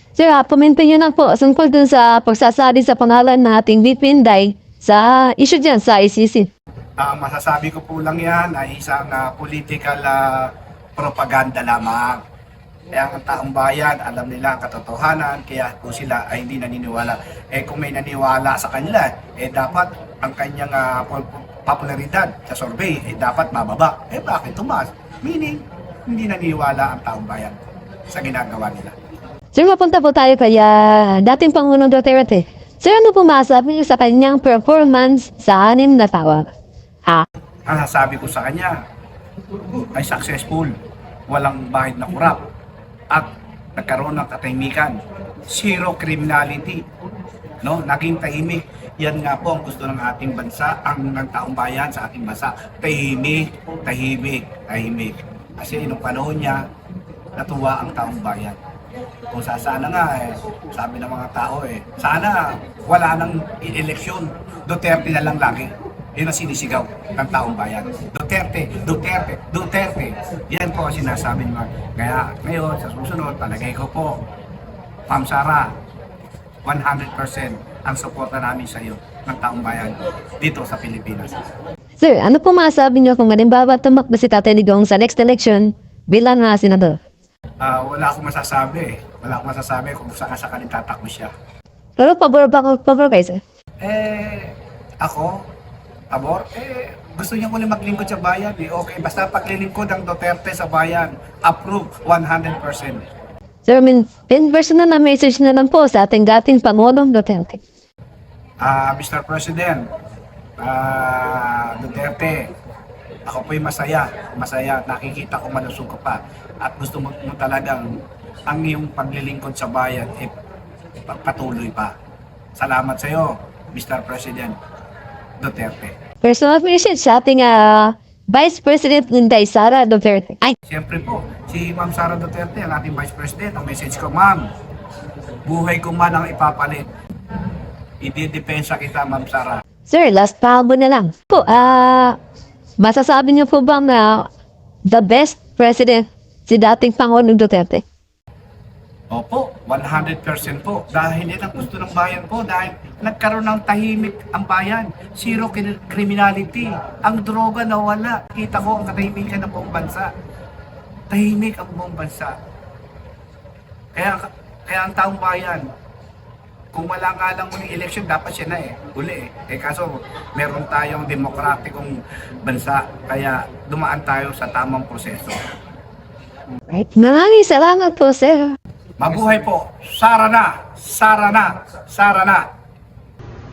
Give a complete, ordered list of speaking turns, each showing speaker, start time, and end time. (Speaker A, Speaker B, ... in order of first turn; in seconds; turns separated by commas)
Speaker A: 0.1-6.5, Speaker B: 7.0-12.2, Speaker B: 12.9-27.6, Speaker B: 28.1-28.9, Speaker A: 29.5-36.5, Speaker B: 37.6-38.8, Speaker B: 39.9-40.7, Speaker B: 41.3-42.4, Speaker B: 43.1-46.8, Speaker B: 47.6-56.6, Speaker B: 57.4-58.6, Speaker B: 59.3-74.2, Speaker B: 75.1-75.7, Speaker B: 76.6-81.4, Speaker A: 82.0-87.0, Speaker B: 87.6-91.3, Speaker A: 92.0-93.4, Speaker B: 93.8-95.4, Speaker B: 96.1-103.0, Speaker A: 103.7-107.6, Speaker B: 108.6-109.8, Speaker B: 110.6-112.5, Speaker B: 113.3-117.9, Speaker B: 118.5-120.3, Speaker B: 121.0-121.9, Speaker B: 122.5-124.5, Speaker B: 125.4-125.9, Speaker A: 126.2-130.6, Speaker B: 130.7-134.5, Speaker B: 135.4-136.9, Speaker B: 138.0-139.6, Speaker A: 139.9-142.2, Speaker A: 142.8-144.3, Speaker A: 144.9-147.8, Speaker B: 149.1-160.1, Speaker B: 161.1-162.3, Speaker B: 163.9-165.7, Speaker B: 166.7-175.4, Speaker A: 176.7-178.6, Speaker B: 179.0-182.5